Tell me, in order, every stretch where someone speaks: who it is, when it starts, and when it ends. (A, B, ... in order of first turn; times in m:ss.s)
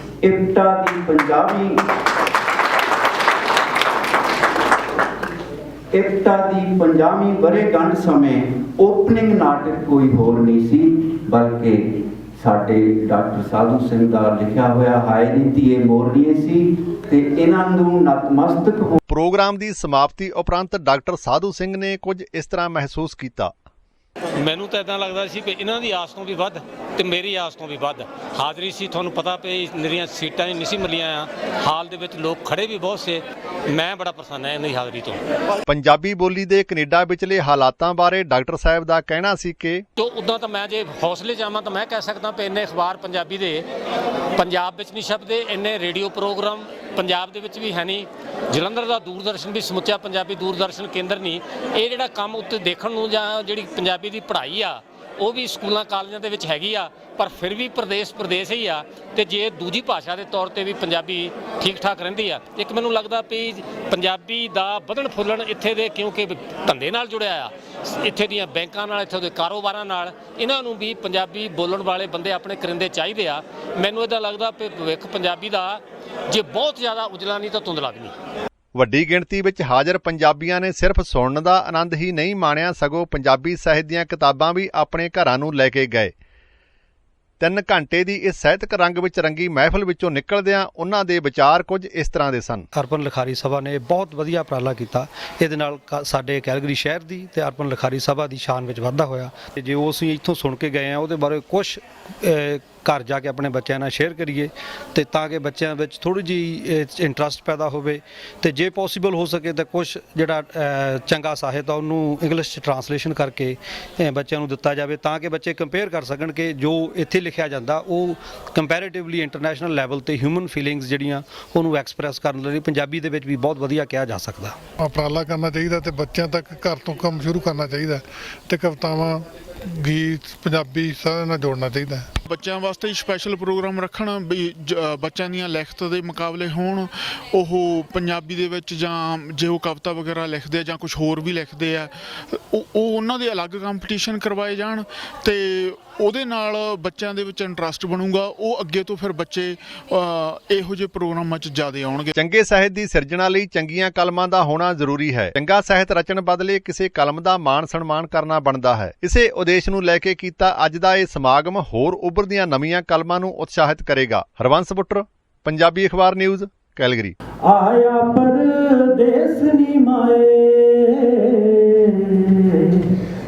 0:00.2-0:01.7 A
0:05.9-0:11.8 A
0:12.4-0:19.0 A
0:19.1-0:23.5 B
0:24.4-0:35.2 C
0:35.7-0:39.8 B
0:40.0-0:43.6 C
0:44.4-1:18.1 C
1:18.8-1:26.1 B
1:27.4-1:32.7 B
1:32.7-2:04.6 D
2:04.8-2:12.2 E
2:12.2-2:32.1 F
2:32.2-2:47.2 B
2:47.4-2:52.8 D